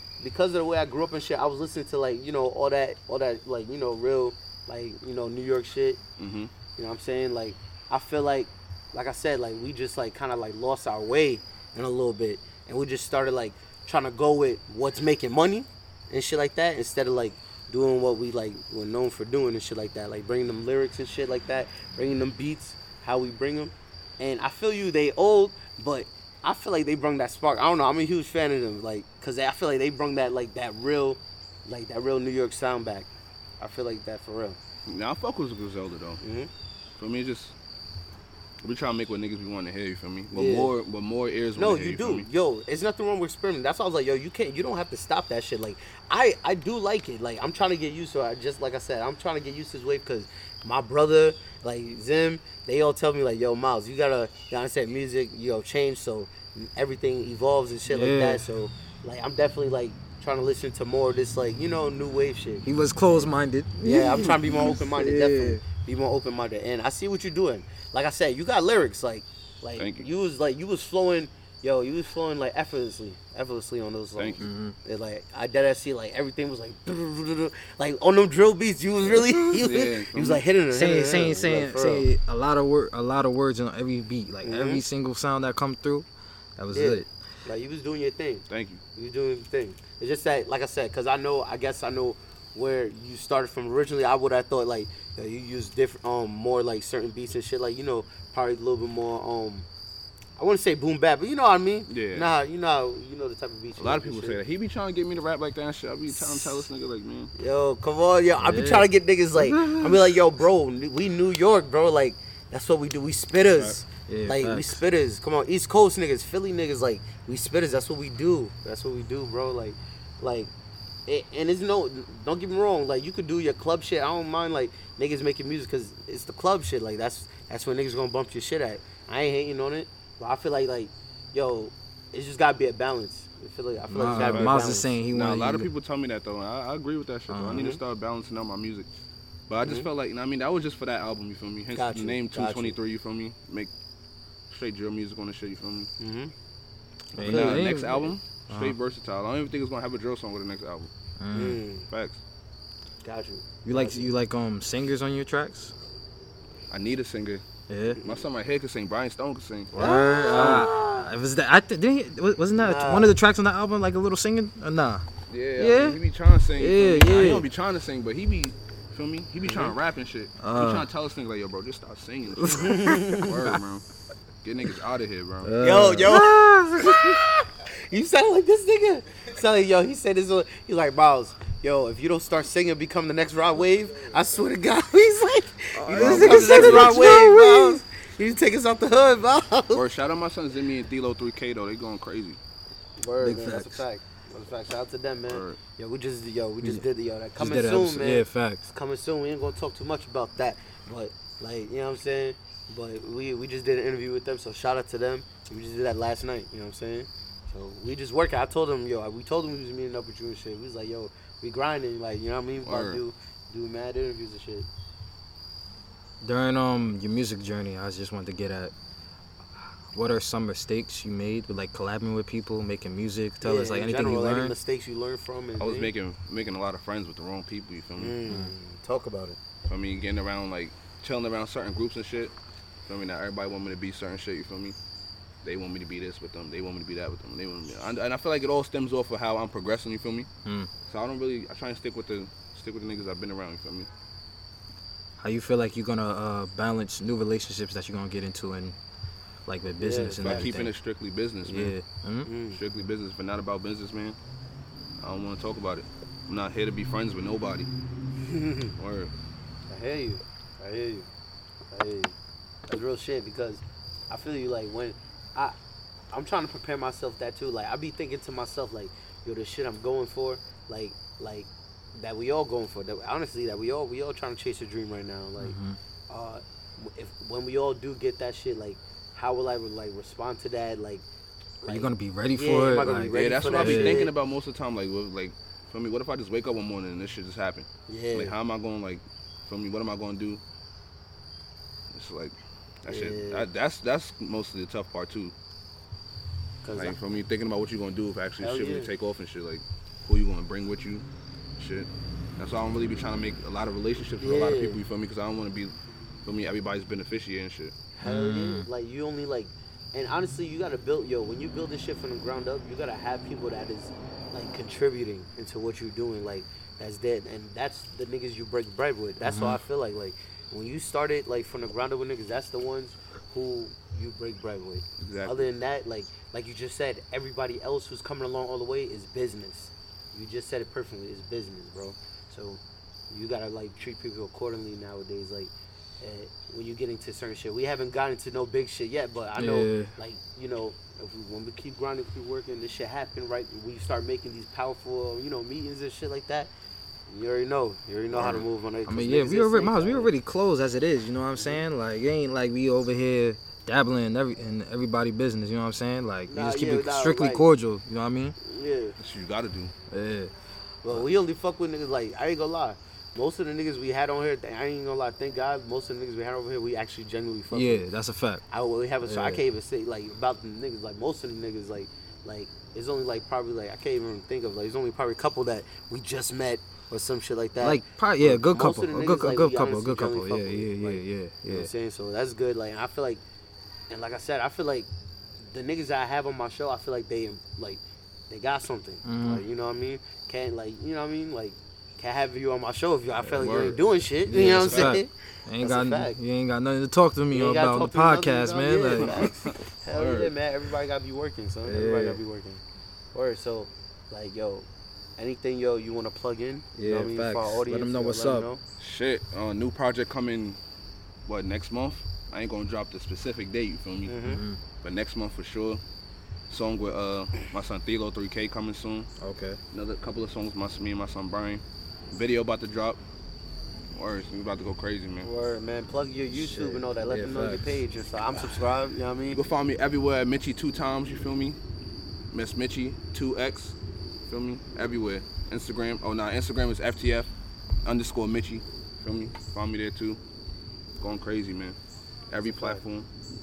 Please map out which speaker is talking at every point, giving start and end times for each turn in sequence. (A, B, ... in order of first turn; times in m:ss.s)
0:00.2-0:06.0 A
0:06.2-0:06.5 B
0:06.8-0:34.6 A
0:34.9-0:36.2 B
0:36.2-0:36.5 A
0:37.0-0:37.6 B
0:38.6-0:42.3 B
0:40.3-0:40.7 A
0:41.6-1:02.6 A
0:57.9-0:58.4 C
1:02.6-1:05.6 C
1:03.8-1:22.1 A
1:09.8-1:10.1 B
1:14.2-1:14.4 B
1:14.4-1:14.7 C
1:19.2-1:20.4 B
1:20.7-1:27.1 C
1:24.4-1:24.8 A
1:26.7-1:28.4 A
1:28.5-1:28.8 B
1:29.0-1:39.6 A
1:40.4-1:44.4 A
1:41.9-1:42.3 B
1:43.8-1:47.3 B
1:46.2-1:46.5 A
1:47.4-2:00.5 A
1:48.4-1:50.0 C
1:53.6-1:53.8 B
1:54.1-1:54.8 C
2:01.1-2:14.9 A
2:13.9-2:15.7 C
2:14.1-2:18.9 B
2:17.3-2:17.7 C
2:17.5-2:17.8 A
2:19.5-2:23.7 B
2:21.7-2:22.8 A
2:24.5-2:25.9 B
2:26.0-2:26.3 A
2:27.1-2:28.8 C
2:27.1-2:30.9 B
2:27.2-2:27.7 A
2:31.2-2:31.6 C
2:31.3-2:31.9 A
2:31.9-2:32.2 B
2:33.0-2:34.1 A
2:33.6-2:35.7 C
2:36.7-2:37.4 B
2:37.7-2:38.0 C
2:38.0-2:39.7 B
2:39.7-2:45.1 C
2:39.7-2:41.1 A
2:40.3-2:40.7 B
2:42.6-2:43.2 A
2:45.3-2:53.9 B
2:45.6-2:46.0 C
2:46.6-2:47.5 C
2:49.4-2:49.7 A
2:50.4-2:50.9 C
2:52.4-2:53.6 C
2:52.6-2:53.3 A
2:54.4-2:55.6 B
2:55.4-2:57.2 C
2:55.6-3:09.8 A
3:05.8-3:07.8 C
3:05.9-3:07.2 B
3:09.7-3:12.4 B
3:13.0-3:34.7 A
3:13.2-3:13.8 C
3:15.3-3:15.6 B
3:17.4-3:18.6 C
3:32.6-3:33.0 B
3:36.2-3:38.7 C
3:39.9-3:44.6 C
3:43.4-3:45.9 A
3:45.6-3:48.2 B
3:48.0-3:49.4 A
3:49.6-3:52.3 B
3:52.9-3:54.8 B
3:55.4-4:00.3 B
4:00.4-4:00.7 C
4:00.9-4:03.9 B
4:05.2-4:08.8 C
4:09.4-4:10.7 C
4:09.8-4:10.5 A
4:10.2-4:11.8 B
4:11.4-4:12.3 C
4:12.2-4:12.6 A
4:12.5-4:14.2 B
4:15.0-4:17.7 B
4:18.2-4:18.7 A
4:18.8-4:19.1 B
4:19.7-4:21.1 A
4:21.7-4:22.1 A
4:22.7-4:25.6 A
4:26.1-4:35.6 A
4:35.4-4:35.8 C
4:36.1-4:41.0 A
4:41.6-4:44.1 A
4:41.6-4:44.1 C
4:43.1-4:50.4 B
4:47.9-4:48.4 A
4:51.9-4:55.3 B
4:52.9-4:53.4 A
4:56.6-4:57.0 A
4:56.7-5:01.0 B
4:58.4-4:58.9 A
5:01.6-5:05.7 B
5:04.2-5:04.8 A
5:06.2-5:07.7 B
5:08.0-5:46.5 A
5:08.0-5:08.7 C
5:19.2-5:19.6 C
5:25.0-5:25.5 B
5:39.4-5:39.9 C
5:47.1-5:50.1 A
5:48.1-5:48.4 B
5:48.9-5:58.4 C
5:56.3-5:57.4 A
5:58.4-5:59.0 A
5:59.0-5:59.7 B
5:59.9-6:00.3 C
6:00.8-6:07.8 A
6:07.5-6:08.4 C
6:08.5-6:17.8 A
6:09.0-6:09.4 C
6:17.6-6:21.7 C
6:18.4-6:23.2 A
6:23.9-6:24.9 A
6:25.4-6:36.2 A
6:29.0-6:29.4 C
6:33.3-6:33.8 B
6:34.3-6:39.2 C
6:34.5-6:35.0 B
6:37.3-6:42.6 A
6:39.0-6:40.3 B
6:41.6-6:42.2 C
6:43.1-6:48.6 A
6:46.7-6:48.5 C
6:48.8-6:50.6 B
6:51.3-6:54.2 B
6:54.1-6:54.4 A
6:54.2-6:54.6 C
6:54.8-6:55.8 B
6:56.5-6:59.1 B
6:59.2-6:59.6 C
6:59.7-7:03.0 B
7:03.9-7:05.3 B
7:05.2-7:09.4 A
7:06.3-7:07.8 C
7:09.3-7:11.6 B
7:12.3-7:13.7 B
7:14.3-7:17.3 B
7:17.8-7:20.2 B
7:21.0-7:21.8 B
7:22.3-7:23.1 B
7:22.4-7:22.8 A